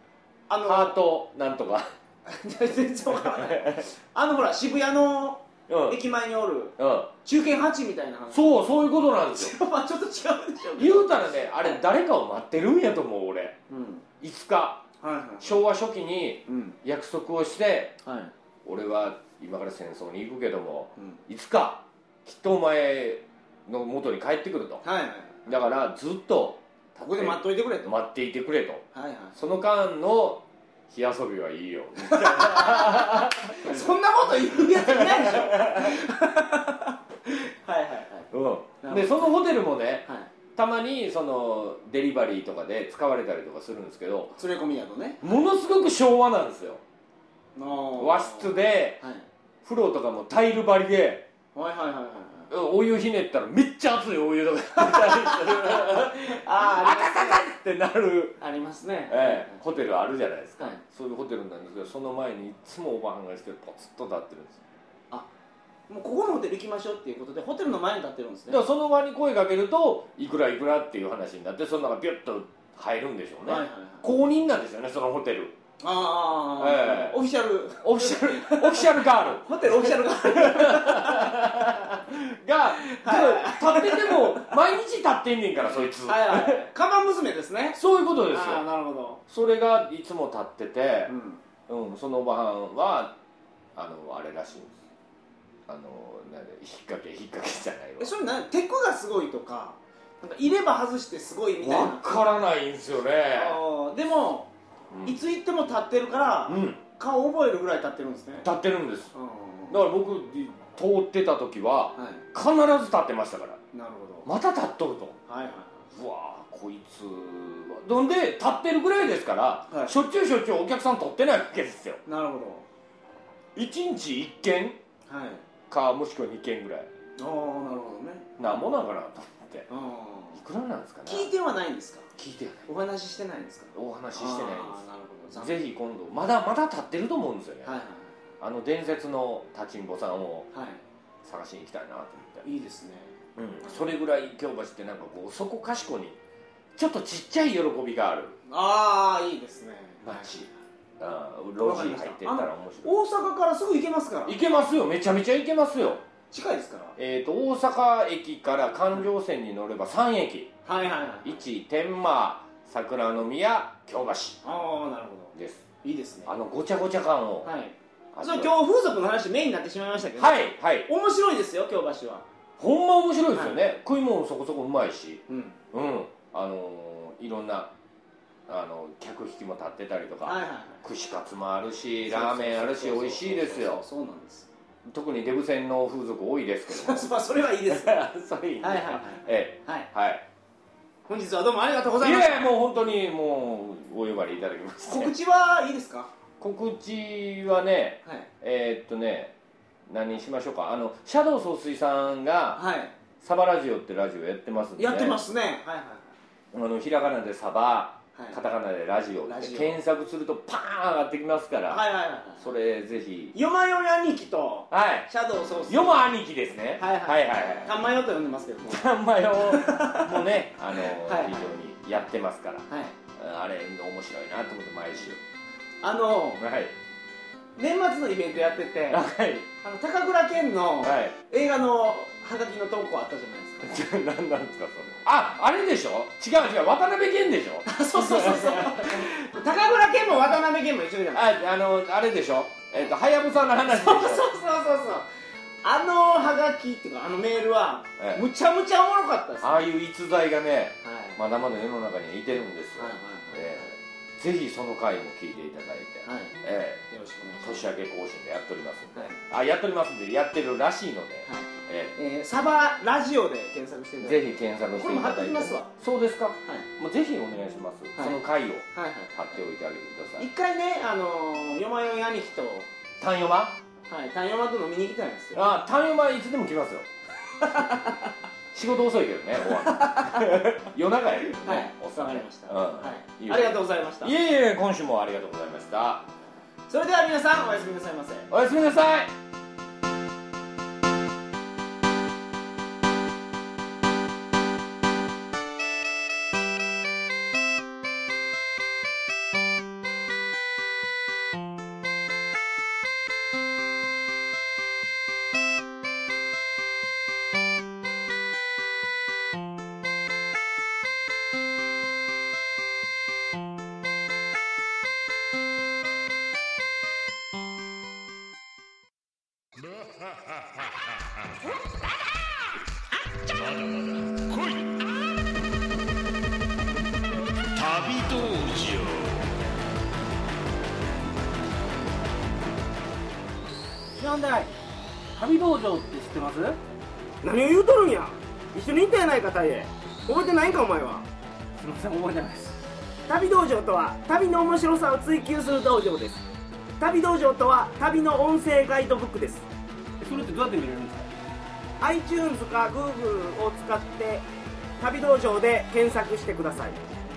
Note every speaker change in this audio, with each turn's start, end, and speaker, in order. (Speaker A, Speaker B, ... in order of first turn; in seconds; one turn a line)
Speaker A: 0.5-1.0
Speaker B: 0.6-1.9
Speaker A: 2.3-8.6
Speaker B: 3.1-3.9
Speaker B: 5.7-6.0
Speaker B: 6.8-7.1
Speaker B: 8.3-9.6
Speaker A: 9.3-11.8
Speaker B: 10.8-13.6
Speaker A: 13.7-14.1
Speaker B: 14.2-14.8
Speaker A: 15.0-15.6
Speaker B: 15.4-18.0
Speaker A: 16.5-16.8
Speaker A: 18.0-18.3
Speaker B: 18.6-24.8
Speaker A: 24.8-25.5
Speaker B: 25.4-28.8
Speaker A: 27.1-27.9
Speaker A: 28.9-29.4
Speaker B: 29.3-36.0
Speaker A: 32.0-38.3
Speaker B: 38.3-44.4
Speaker A: 38.8-39.3
Speaker A: 44.4-45.3
Speaker B: 45.2-46.8
Speaker A: 47.5-49.3
Speaker B: 48.0-49.0
Speaker B: 49.6-51.3
Speaker A: 51.5-52.5
Speaker B: 52.5-58.4
Speaker A: 54.8-57.5
Speaker A: 58.4-59.6
Speaker B: 59.1-64.6
Speaker A: 65.9-68.6
Speaker B: 68.5-75.5
Speaker A: 73.4-74.1
Speaker A: 75.8-81.7
Speaker B: 76.6-77.2
Speaker B: 77.8-86.7
Speaker A: 82.8-84.5
Speaker A: 85.6-87.8
Speaker B: 87.7-88.6
Speaker A: 88.3-89.2
Speaker B: 89.3-91.1
Speaker A: 91.1-91.4
Speaker B: 91.7-93.2
Speaker B: 93.7-94.8
Speaker B: 95.7-98.1
Speaker A: 98.0-102.2
Speaker B: 101.6-103.6
Speaker A: 103.3-104.5
Speaker B: 104.9-105.2
Speaker A: 105.0-108.5
Speaker B: 106.5-106.8
Speaker B: 108.4-109.1
Speaker A: 109.1-109.8
Speaker B: 109.7-113.6
Speaker A: 112.0-112.2
Speaker A: 113.7-114.3
Speaker B: 114.2-115.2
Speaker A: 115.3-115.8
Speaker B: 115.9-122.0
Speaker A: 119.7-119.9
Speaker A: 122.0-122.7
Speaker B: 123.5-124.8
Speaker A: 125.1-125.4
Speaker B: 125.7-126.9
Speaker A: 127.2-128.3
Speaker B: 128.4-129.7
Speaker A: 129.7-130.4
Speaker B: 130.3-131.3
Speaker A: 131.1-132.1
Speaker B: 132.2-132.7
Speaker A: 132.7-135.6
Speaker B: 133.7-137.8
Speaker A: 137.6-138.1
Speaker B: 138.4-140.5
Speaker A: 140.5-140.8
Speaker B: 141.2-142.4
Speaker A: 142.4-143.2
Speaker B: 143.3-146.2
Speaker B: 146.8-148.3
Speaker A: 148.5-150.3
Speaker B: 150.0-153.0
Speaker A: 151.6-154.4
Speaker B: 154.2-156.0
Speaker A: 156.3-156.9
Speaker B: 156.9-160.5
Speaker A: 160.7-161.4
Speaker B: 161.2-164.4
Speaker A: 164.4-166.3
Speaker B: 165.3-165.6
Speaker B: 166.2-167.5
Speaker A: 167.4-172.2
Speaker B: 168.1-168.5
Speaker B: 170.2-170.9
Speaker B: 172.6-177.7
Speaker A: 173.3-173.6
Speaker A: 175.3-175.6
Speaker B: 178.5-183.8
Speaker A: 180.2-180.8
Speaker A: 182.1-184.5
Speaker B: 184.9-187.1
Speaker A: 186.7-188.0
Speaker B: 187.7-190.2
Speaker A: 188.6-189.9
Speaker A: 191.1-192.5
Speaker B: 192.0-195.1
Speaker A: 194.9-196.1
Speaker B: 196.4-199.3
Speaker B: 199.9-202.6
Speaker A: 202.5-202.9
Speaker B: 203.2-205.2
Speaker A: 204.8-206.2
Speaker B: 206.5-211.8
Speaker A: 209.2-209.8
Speaker A: 211.7-212.4
Speaker B: 212.4-213.3
Speaker A: 213.3-216.0
Speaker B: 214.7-215.1
Speaker B: 215.7-217.7
Speaker A: 216.8-221.5
Speaker B: 218.6-225.2
Speaker A: 222.7-222.9
Speaker A: 225.8-226.4
Speaker B: 226.4-226.7
Speaker A: 227.6-229.1
Speaker B: 228.9-229.5
Speaker A: 229.6-233.8
Speaker B: 230.8-231.1
Speaker B: 233.6-239.1
Speaker A: 237.7-241.2
Speaker B: 241.1-244.3
Speaker A: 243.6-245.1
Speaker A: 245.6-249.6
Speaker B: 248.0-248.2
Speaker B: 249.4-256.8
Speaker A: 250.8-251.2
Speaker A: 252.8-253.7
Speaker A: 256.0-256.3
Speaker A: 256.9-257.6
Speaker B: 257.4-261.9
Speaker A: 261.2-265.7
Speaker B: 264.0-270.2
Speaker A: 267.9-268.2
Speaker A: 268.7-269.4
Speaker A: 270.2-272.7
Speaker B: 273.0-273.6
Speaker A: 273.9-275.4
Speaker B: 275.3-276.9
Speaker A: 277.4-278.1
Speaker B: 278.5-286.0
Speaker A: 279.4-280.4
Speaker A: 281.3-284.1
Speaker A: 286.7-288.3
Speaker B: 288.3-289.1
Speaker B: 323.2-324.8
Speaker B: 327.5-329.2
Speaker A: 333.9-334.5
Speaker C: 335.1-336.6
Speaker A: 337.2-341.1
Speaker C: 341.6-342.6
Speaker A: 343.1-346.2
Speaker A: 346.8-349.5
Speaker C: 350.0-351.1
Speaker A: 351.8-354.2
Speaker A: 354.8-356.8